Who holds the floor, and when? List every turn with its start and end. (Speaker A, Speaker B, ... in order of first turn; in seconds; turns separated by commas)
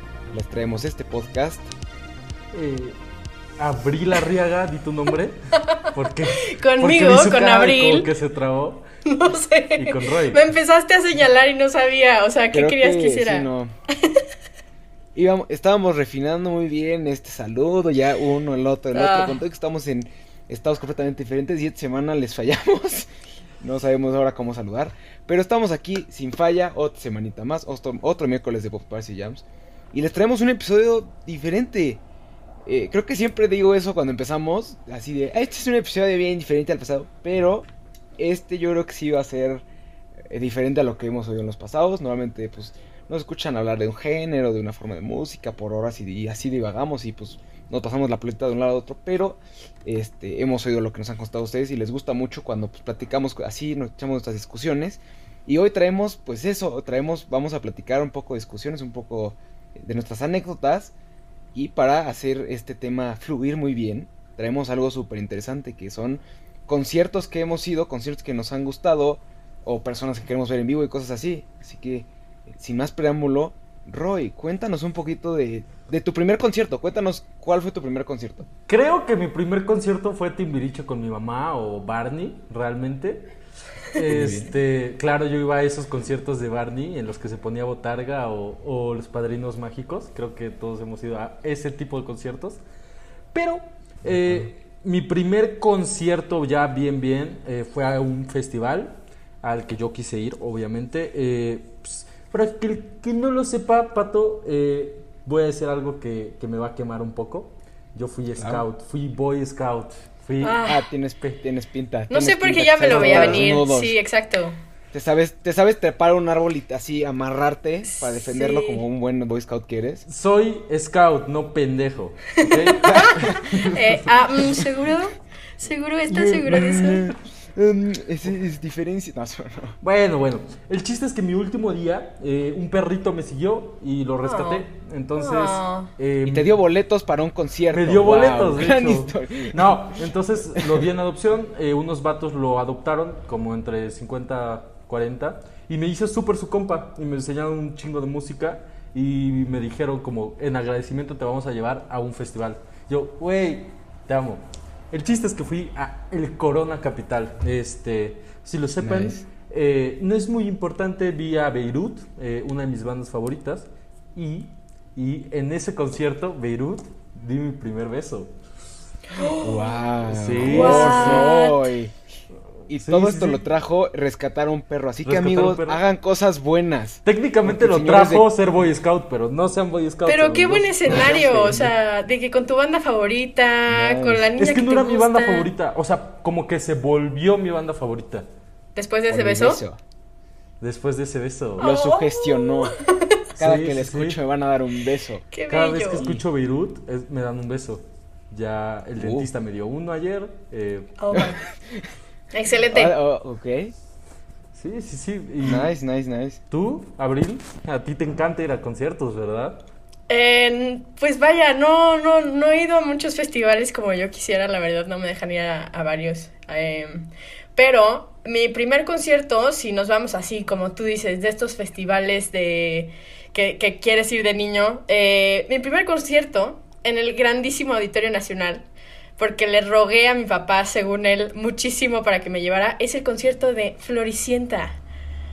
Speaker A: 0.3-1.7, Speaker B: 2.5-3.0, Speaker B: 3.6-8.8, Speaker C: 6.4-8.1, Speaker C: 9.0-13.5, Speaker B: 9.8-10.4, Speaker A: 12.5-13.7, Speaker A: 15.1-32.0, Speaker C: 18.9-19.4, Speaker A: 32.6-39.6, Speaker A: 40.3-60.9, Speaker A: 61.5-78.4, Speaker B: 78.6-83.3, Speaker B: 83.9-92.6, Speaker A: 84.1-84.5, Speaker B: 93.3-110.7, Speaker A: 94.0-94.5, Speaker A: 108.4-108.6, Speaker C: 110.4-110.8, Speaker A: 110.6-114.0, Speaker C: 112.1-114.6, Speaker B: 112.9-113.6, Speaker A: 114.9-120.0, Speaker C: 117.8-118.8, Speaker B: 120.1-124.0, Speaker C: 122.3-127.1, Speaker A: 122.8-123.5, Speaker B: 126.1-127.0, Speaker A: 126.6-129.8, Speaker B: 129.8-136.5, Speaker C: 134.2-134.6, Speaker C: 135.2-135.9, Speaker A: 136.2-140.9, Speaker B: 137.7-168.3, Speaker A: 158.8-159.2, Speaker C: 169.1-169.8, Speaker A: 169.4-171.9, Speaker B: 170.1-171.3, Speaker C: 170.4-171.7, Speaker B: 172.7-173.4, Speaker A: 172.7-178.3, Speaker B: 175.0-175.8, Speaker B: 177.0-181.7, Speaker C: 180.1-185.5, Speaker A: 181.0-181.2, Speaker A: 183.7-184.3, Speaker B: 184.4-188.2, Speaker C: 188.8-189.6, Speaker A: 189.1-189.8, Speaker B: 190.6-191.7, Speaker A: 191.6-192.7, Speaker C: 191.6-193.2, Speaker B: 193.3-194.2, Speaker A: 193.4-195.2, Speaker C: 195.3-196.0, Speaker B: 195.5-201.0, Speaker A: 196.0-196.2, Speaker A: 199.0-199.3, Speaker C: 201.0-201.4, Speaker A: 201.1-201.9, Speaker C: 202.3-202.9, Speaker A: 202.7-203.7, Speaker B: 204.5-205.7, Speaker A: 205.4-206.4, Speaker B: 206.5-209.6, Speaker C: 210.1-228.7, Speaker C: 229.2-234.8